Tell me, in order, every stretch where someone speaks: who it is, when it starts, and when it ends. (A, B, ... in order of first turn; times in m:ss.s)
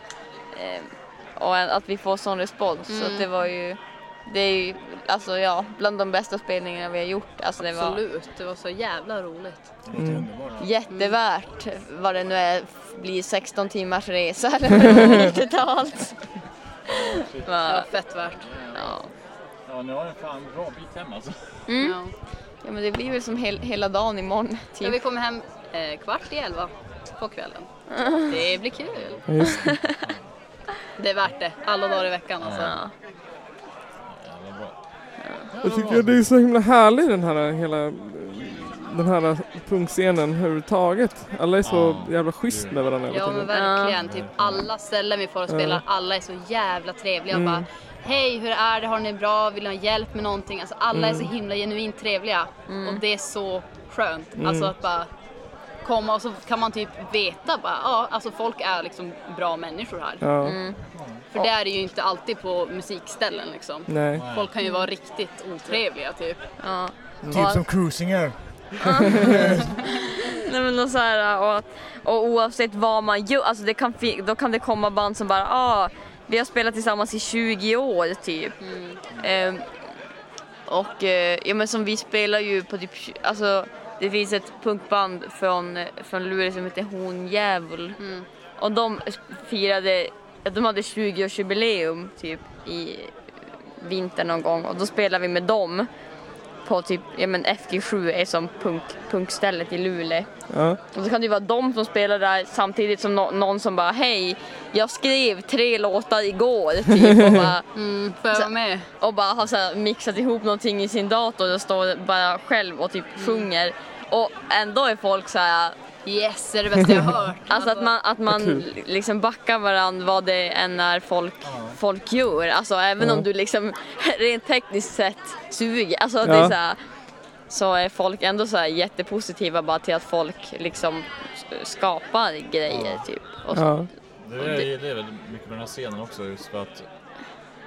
0:00.5-0:00.9 A
0:01.4-0:08.0 A
0:02.9-0:03.3 B
0:07.6-0:09.7 B
0:09.9-0:10.6 C
0:10.0-0:10.2 D
0:10.6-0:16.2 A
0:10.9-0:11.2 B
0:16.9-0:17.5 E
0:17.4-0:17.9 A
0:17.6-0:18.5 B
0:18.3-0:18.9 E
0:18.7-0:19.1 A
0:19.7-0:21.4 E
0:21.7-0:22.0 A
0:21.8-0:22.1 B
0:22.6-0:25.0 A
0:24.8-0:29.2 B
0:27.9-0:28.4 A
0:28.7-0:30.2 E
0:29.3-0:29.6 D
0:29.5-0:30.0 A
0:31.0-0:32.8 B
0:32.4-0:32.7 E
0:32.6-0:32.9 A
0:34.1-0:34.7 E
0:35.5-0:36.2 E
0:35.6-0:43.5 D
0:41.6-0:42.8 E
0:43.1-0:55.1 B
0:43.5-0:44.0 A
0:44.0-0:44.6 E
0:45.5-0:45.8 D
0:47.3-0:47.6 D
0:50.9-0:51.3 D
0:52.7-0:53.0 A
0:54.4-0:54.7 D
0:55.8-1:00.3 B
1:00.2-1:00.6 D
1:00.4-1:00.8 A
1:00.9-1:01.2 E
1:01.3-1:06.4 B
1:03.9-1:04.2 D
1:04.1-1:04.5 E
1:06.6-1:07.7 A
1:07.3-1:09.7 C
1:08.8-1:09.4 A
1:10.1-1:18.5 A
1:18.6-1:19.0 B
1:19.2-1:19.6 A
1:20.7-1:28.0 A
1:28.0-1:28.2 B
1:28.6-1:33.1 A
1:33.8-1:35.9 A
1:36.6-1:40.3 A
1:40.5-1:40.8 D
1:40.9-1:47.6 A
1:47.7-1:48.9 B
1:48.3-1:55.8 A
1:53.2-1:53.5 B
1:56.0-1:57.9 B
1:57.5-2:06.8 A
1:58.3-1:58.6 D
2:01.4-2:01.8 E
2:03.0-2:03.2 D
2:06.2-2:06.5 D
2:07.5-2:13.8 A
2:13.5-2:13.9 D
2:14.2-2:16.9 E